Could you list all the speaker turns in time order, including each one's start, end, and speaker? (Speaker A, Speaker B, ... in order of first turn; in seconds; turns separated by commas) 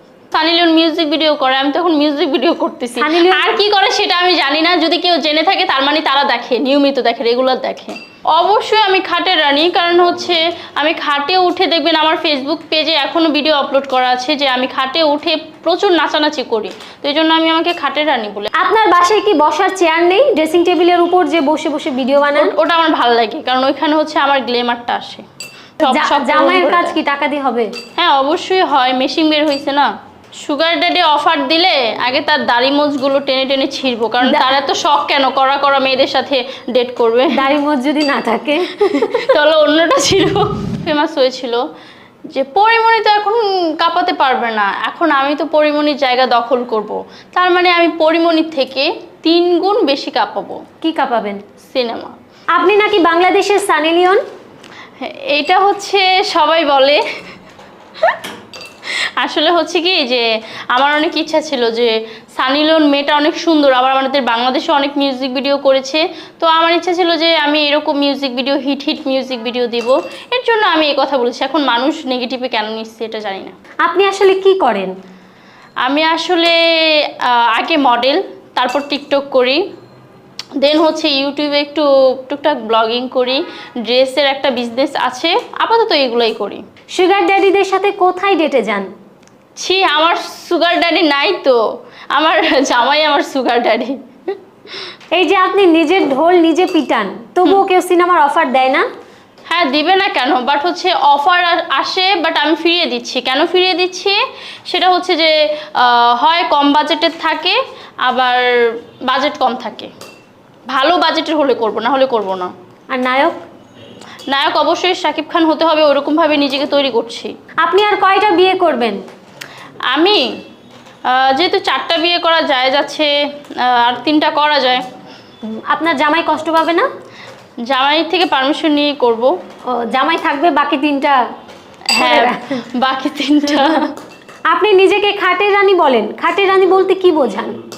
Speaker A: 0.3-18.5, Speaker B: 3.0-3.6, Speaker B: 18.6-22.6, Speaker A: 22.4-25.2, Speaker A: 25.8-26.9, Speaker B: 25.9-27.7, Speaker A: 28.0-37.5, Speaker B: 34.2-34.5, Speaker B: 37.3-39.4, Speaker A: 38.8-41.6, Speaker A: 42.3-50.6, Speaker B: 50.8-51.4, Speaker A: 51.6-52.2, Speaker B: 52.5-54.2, Speaker A: 55.0-57.0, Speaker A: 59.2-73.5, Speaker B: 73.8-74.9, Speaker A: 75.8-79.6, Speaker A: 80.6-86.6, Speaker B: 87.0-88.9, Speaker A: 89.6-91.6, Speaker A: 92.1-94.0, Speaker B: 95.1-98.9, Speaker A: 99.5-109.9, Speaker A: 110.7-112.5, Speaker B: 112.9-113.4, Speaker A: 114.3-117.3, Speaker B: 117.6-119.0, Speaker A: 119.9-120.2, Speaker A: 121.1-124.8, Speaker B: 125.7-126.9, Speaker A: 127.7-129.3, Speaker B: 129.7-131.2, Speaker A: 131.9-133.9, Speaker B: 132.0-132.6, Speaker B: 134.5-137.6